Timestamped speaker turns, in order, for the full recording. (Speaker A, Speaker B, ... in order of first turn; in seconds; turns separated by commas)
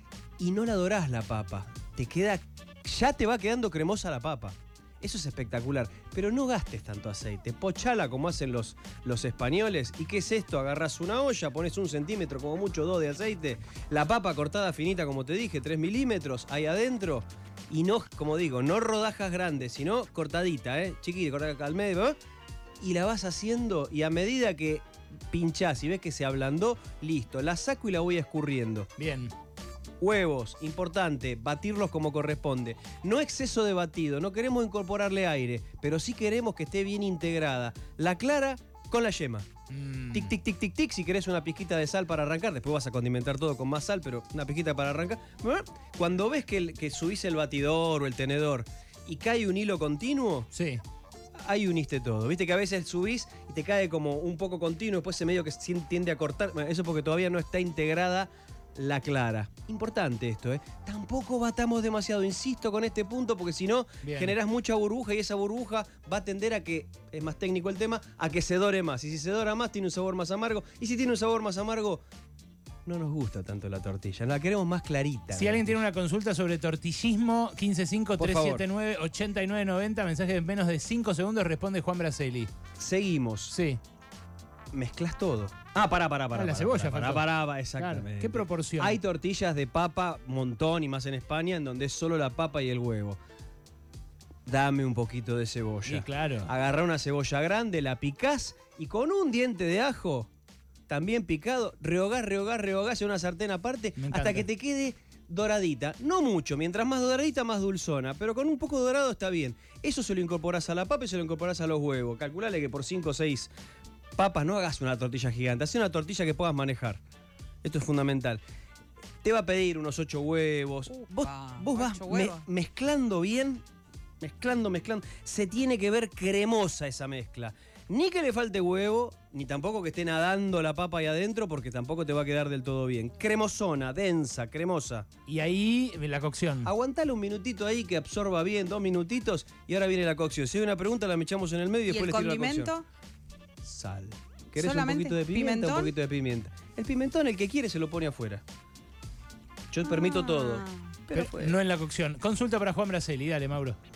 Speaker A: 0.4-22.2, Speaker A: 22.8-28.9, Speaker B: 29.0-29.3, Speaker A: 30.0-39.5, Speaker B: 39.7-40.3, Speaker A: 40.1-50.5, Speaker B: 50.5-50.8, Speaker A: 51.4-72.0, Speaker B: 64.0-64.3, Speaker A: 72.9-75.7, Speaker B: 75.3-82.5, Speaker A: 78.2-78.7, Speaker A: 82.8-83.5, Speaker B: 83.5-83.8, Speaker A: 84.7-93.2, Speaker B: 86.3-89.0, Speaker A: 94.5-100.3, Speaker B: 95.9-96.5, Speaker A: 100.9-113.5, Speaker B: 104.0-104.5, Speaker A: 114.2-117.0, Speaker A: 117.6-118.4, Speaker A: 119.2-123.6, Speaker C: 120.9-122.5, Speaker A: 124.2-135.1, Speaker B: 135.3-136.7, Speaker A: 136.7-142.7, Speaker C: 141.9-142.9, Speaker A: 143.6-148.4, Speaker C: 144.6-145.9, Speaker A: 149.7-151.6, Speaker C: 149.8-150.9, Speaker B: 151.1-153.8